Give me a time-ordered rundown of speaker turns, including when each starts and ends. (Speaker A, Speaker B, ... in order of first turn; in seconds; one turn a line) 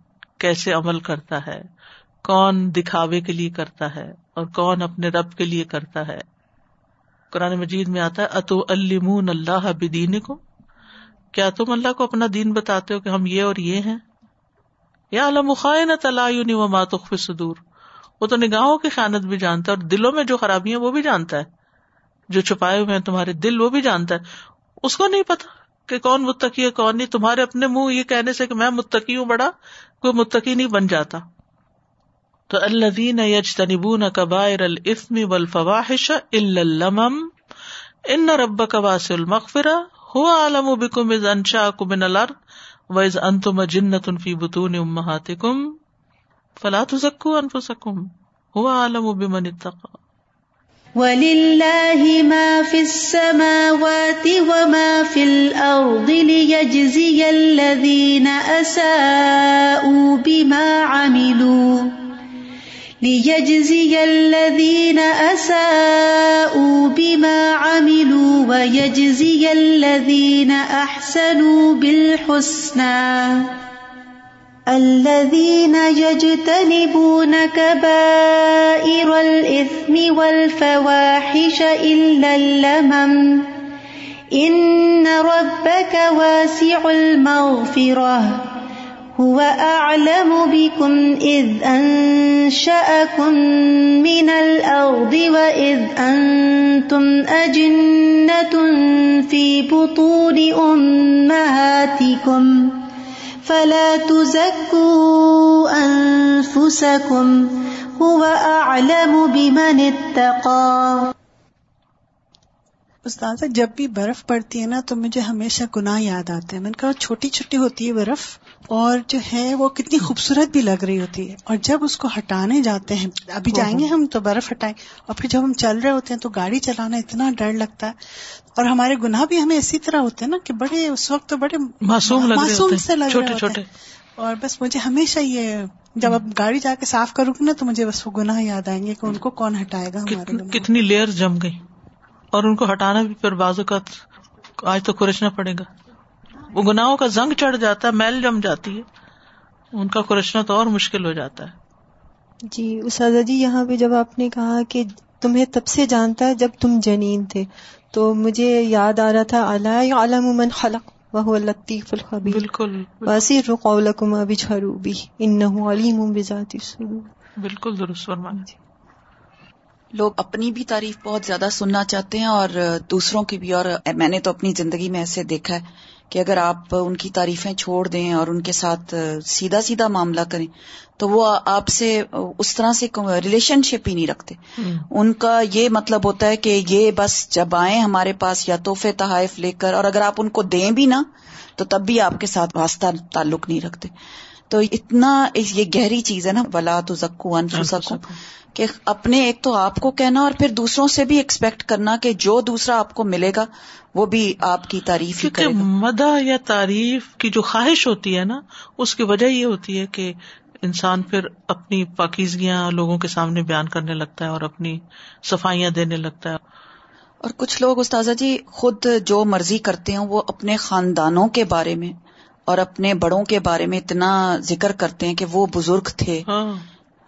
Speaker A: 0.4-1.6
Speaker A: 2.2-6.2
Speaker A: 7.3-10.4
Speaker A: 11.3-14.0
Speaker A: 15.1-17.6
Speaker A: 18.2-21.5
Speaker A: 22.3-24.2
Speaker A: 24.8-31.2
Speaker A: 32.5-37.3
Speaker A: 38.1-42.3
Speaker A: 42.9-45.6
Speaker A: 46.6-50.0
Speaker B: 51.0-62.1
Speaker B: 63.0-73.6
Speaker B: 74.7-83.5
Speaker B: 84.3-88.5
Speaker B: 89.1-102.9
Speaker B: 103.4-111.1
Speaker C: 113.0-127.9
Speaker A: 123.5-123.9
Speaker C: 128.5-133.6
Speaker A: 131.8-133.7
Speaker C: 134.2-140.7
Speaker A: 140.1-141.6
Speaker A: 142.3-144.0
Speaker A: 144.6-145.7
Speaker A: 146.5-148.8
Speaker A: 149.7-151.5
Speaker D: 152.5-162.5
Speaker A: 162.2-163.2
Speaker D: 163.0-167.1
Speaker A: 167.4-168.5
Speaker E: 169.9-184.4
Speaker A: 184.6-184.8
Speaker E: 184.9-191.1
Speaker E: 191.6-193.9
Speaker E: 194.5-198.0
Speaker A: 197.5-198.2
Speaker E: 198.5-205.6
Speaker A: 205.2-216.4
Speaker E: 217.2-221.9
Speaker E: 222.5-226.2
Speaker A: 226.3-226.7